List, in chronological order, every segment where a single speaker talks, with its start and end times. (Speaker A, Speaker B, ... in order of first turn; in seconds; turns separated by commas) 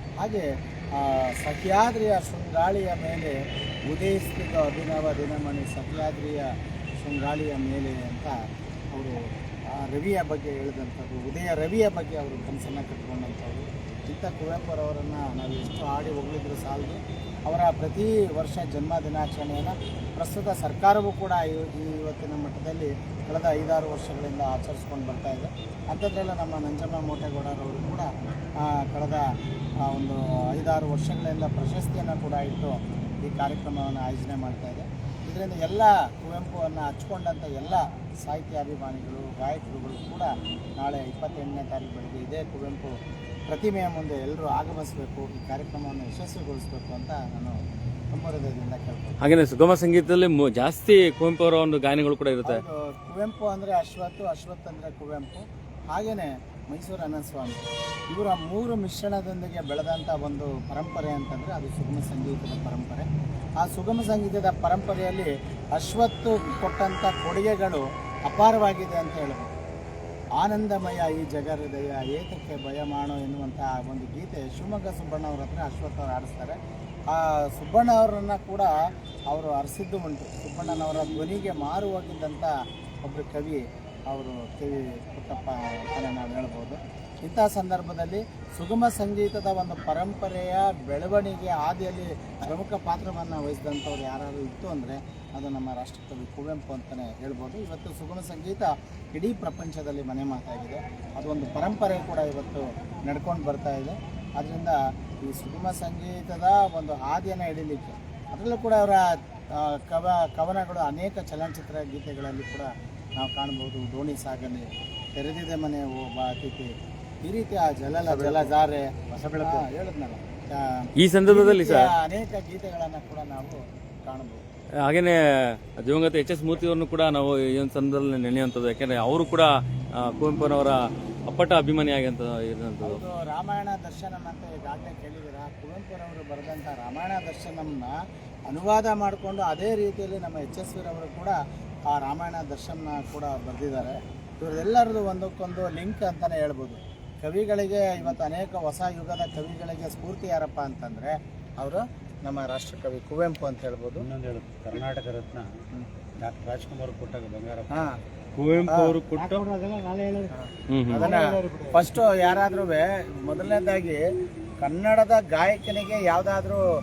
Speaker A: 0.2-3.4, Speaker A: 3.9-8.3, Speaker A: 8.9-9.2, Speaker A: 9.7-29.3, Speaker A: 29.8-42.9, Speaker A: 43.5-47.6, Speaker A: 48.1-49.2, Speaker B: 49.2-52.6, Speaker A: 52.4-63.1, Speaker A: 63.6-69.5, Speaker A: 70.4-76.6, Speaker A: 77.1-78.7, Speaker A: 79.3-82.5, Speaker A: 83.0-116.7, Speaker A: 117.2-124.4, Speaker C: 118.0-118.5, Speaker C: 119.1-119.6, Speaker B: 121.0-121.9, Speaker B: 124.8-133.0, Speaker A: 132.8-137.9, Speaker A: 138.5-141.4, Speaker A: 141.9-154.1, Speaker C: 154.0-155.6, Speaker C: 156.2-157.7, Speaker A: 157.7-158.0, Speaker C: 158.3-159.7, Speaker A: 158.7-159.1, Speaker B: 160.7-161.1, Speaker A: 160.9-164.0, Speaker C: 161.0-161.7, Speaker A: 164.6-166.6